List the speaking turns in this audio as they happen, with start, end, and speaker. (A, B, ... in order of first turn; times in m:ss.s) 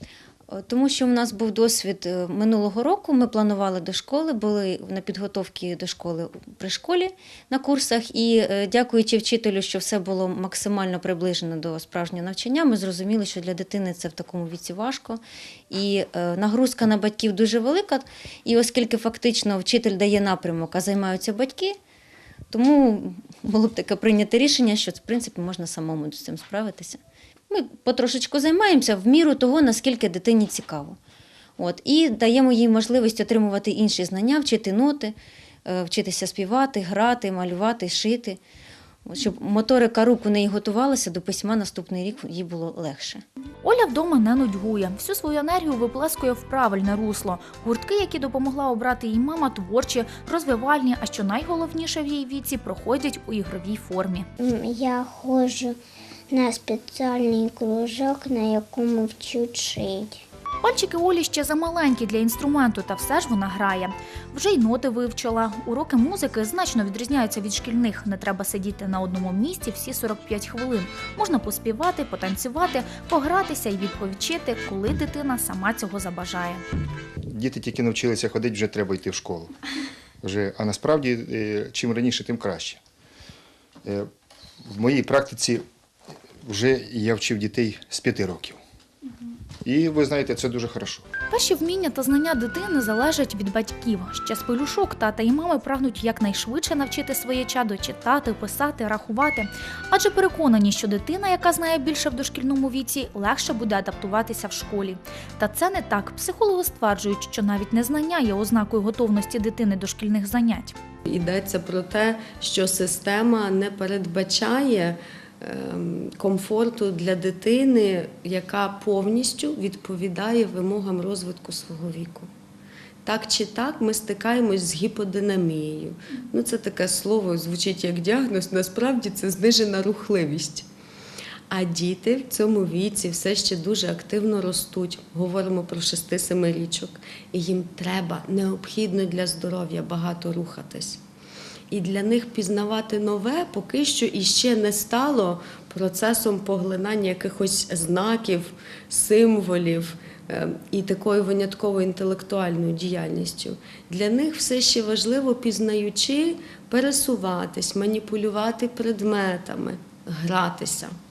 0:00.5-0:21.8 A
0:22.5-0:31.0 A
0:31.6-0:35.2 A
0:35.7-0:38.4 A
0:39.1-0:43.2 A
0:43.6-0:54.3 B
0:54.4-0:55.8 C
0:56.3-1:00.2 C
1:00.6-1:16.6 B
1:17.3-1:19.5 D
1:20.2-1:22.8 D
1:24.7-1:25.6 D
1:26.4-1:28.6 D
1:29.6-1:31.0 D
1:31.3-1:50.8 B
1:51.1-2:02.3 E
2:03.0-2:10.7 E
2:11.5-2:21.0 E
2:21.7-2:40.9 E